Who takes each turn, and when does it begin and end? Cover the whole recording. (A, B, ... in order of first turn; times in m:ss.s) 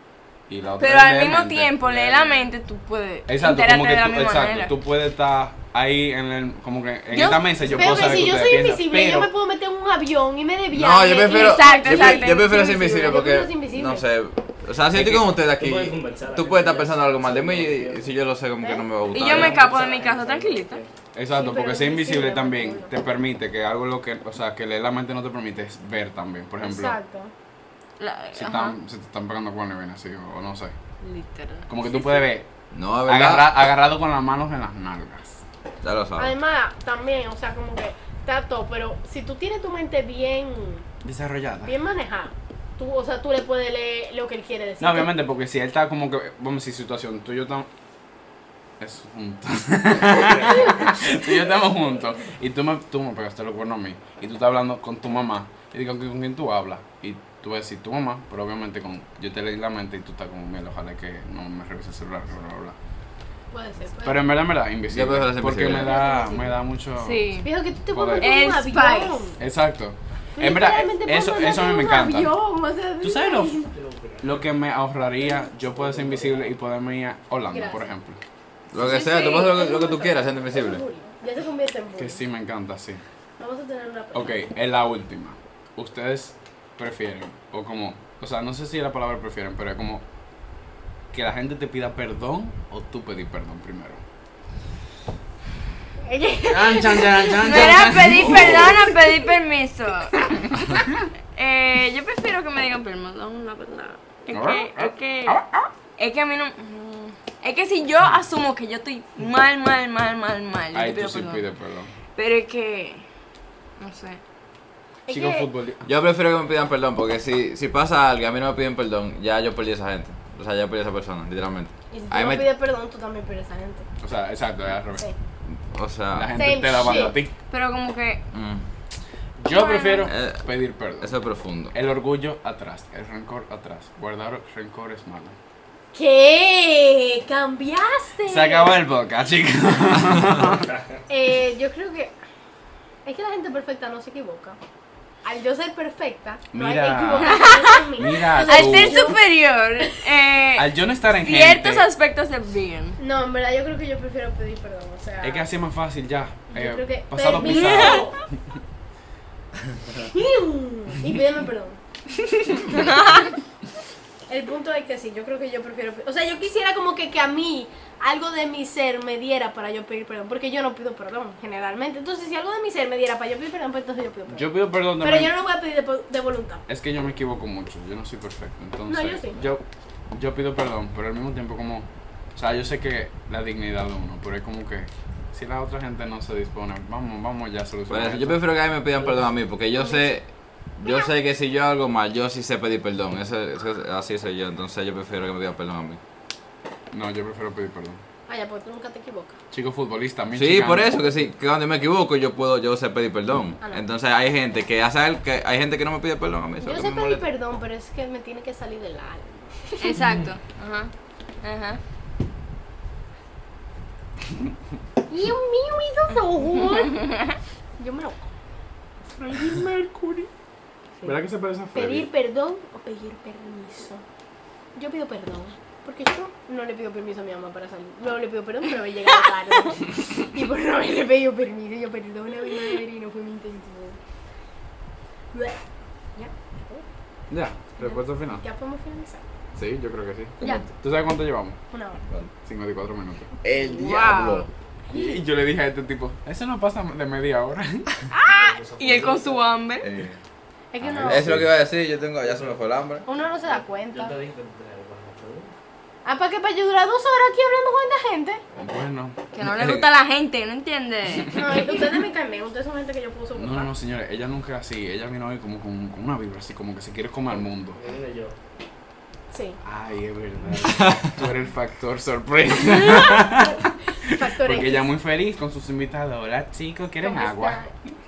0:00.5-0:02.4 A
0:00.8-0:04.7 B
0:03.3-0:09.3 A
0:07.1-0:14.0 C
0:10.7-0:19.6 D
0:11.2-0:12.6 B
0:14.9-0:15.3 A
0:15.4-0:18.1 E
0:18.6-0:18.8 C
0:19.1-0:20.8 B
0:19.2-0:20.9 E
0:21.1-0:27.0 A
0:21.3-0:22.9 C
0:26.6-0:27.3 C
0:28.0-0:28.8 B
0:28.3-0:30.7 A
0:31.0-0:31.7 B
0:31.7-0:32.5 A
0:32.7-0:33.5 D
0:33.0-0:35.4 A
0:35.8-0:36.4 D
0:36.2-0:40.8 C
0:41.0-0:41.7 A
0:41.6-0:45.2 C
0:44.8-0:47.7 A
0:48.8-1:02.8 A
0:50.2-0:51.2 E
1:03.5-1:04.3 C
1:04.0-1:07.4 A
1:04.9-1:05.9 D
1:05.6-1:06.6 C
1:07.0-1:07.5 B
1:07.4-1:09.4 C
1:07.9-1:08.4 A
1:08.2-1:09.3 B
1:09.4-1:12.4 A
1:10.4-1:13.7 C
1:13.0-1:13.6 A
1:13.7-1:14.5 E
1:14.2-1:18.2 A
1:15.4-1:16.6 E
1:17.5-1:17.9 C
1:18.7-1:20.8 D
1:18.7-1:22.2 C
1:22.0-1:23.0 A
1:23.4-1:24.4 C
1:24.1-1:30.0 A
1:31.1-1:34.0 A
1:36.1-1:37.5 C
1:36.4-1:38.9 A
1:37.4-1:40.3 B
1:38.3-1:38.8 D
1:40.4-1:41.1 A
1:41.3-1:45.4 B
1:44.3-1:45.7 A
1:46.0-1:51.4 B
1:50.7-1:51.9 A
1:52.1-1:53.0 B
1:53.8-1:54.2 B
1:55.1-1:55.5 C
1:55.1-1:55.9 A
1:55.8-2:02.4 D
2:01.9-2:03.9 C
2:04.0-2:05.0 A
2:05.4-2:07.0 D
2:06.1-2:07.3 A
2:06.3-2:07.2 C
2:07.5-2:08.2 B
2:08.3-2:08.6 D
2:09.4-2:11.1 A
2:09.5-2:10.1 B
2:10.1-2:10.4 D
2:11.0-2:11.7 D
2:11.7-2:15.4 A
2:15.9-2:18.7 C
2:18.2-2:20.7 A
2:20.4-2:21.0 E
2:21.1-2:22.1 C
2:23.0-2:24.6 C
2:25.2-2:29.2 C
2:26.5-2:29.2 A
2:27.2-2:33.0 B
2:30.6-2:31.9 A
2:33.0-2:35.4 C
2:35.2-2:38.1 A
2:36.5-2:38.2 C
2:37.4-2:38.1 B
2:40.0-2:41.8 C
2:42.7-2:43.3 B
2:44.3-2:56.6 C
2:54.3-2:55.3 A
2:56.7-3:08.4 A
2:58.9-2:59.4 C
3:07.9-3:16.0 D
3:09.7-3:10.2 C
3:10.8-3:11.1 C
3:16.9-3:18.0 A
3:18.3-3:19.4 C
3:19.5-3:21.3 A
3:20.3-3:27.2 D
3:26.6-3:30.0 C
3:29.8-3:30.9 B
3:29.9-3:30.3 A
3:31.4-3:31.8 B
3:35.1-3:37.1 C
3:36.8-3:37.3 B
3:37.8-3:38.3 C
3:39.2-3:40.3 A
3:39.2-3:39.7 C
3:41.0-3:42.1 A
3:41.7-3:44.0 C
3:44.7-3:54.0 C
3:55.3-3:55.6 C
3:56.1-3:56.8 C
3:57.3-3:58.4 A
3:57.8-3:59.2 C
3:59.6-4:01.6 A
4:00.4-4:00.6 D
4:01.7-4:02.0 C
4:02.4-4:03.3 A
4:03.4-4:04.5 D
4:03.6-4:04.5 B
4:04.9-4:05.2 C
4:04.9-4:08.0 A
4:08.1-4:08.5 C
4:08.3-4:09.5 E
4:08.8-4:09.9 B
4:09.8-4:10.2 D
4:10.7-4:11.3 C
4:10.8-4:13.0 D
4:11.0-4:11.5 A
4:12.2-4:12.6 E
4:13.0-4:14.1 C
4:13.3-4:15.5 E
4:16.0-4:18.4 C
4:18.6-4:19.2 A
4:19.3-4:21.8 B
4:19.4-4:19.9 D
4:21.2-4:23.7 C
4:23.3-4:27.8 A
4:27.3-4:28.4 E
4:29.3-4:29.6 C
4:29.6-4:37.6 A
4:30.6-4:31.1 D
4:33.1-4:34.9 C
4:37.0-4:37.7 C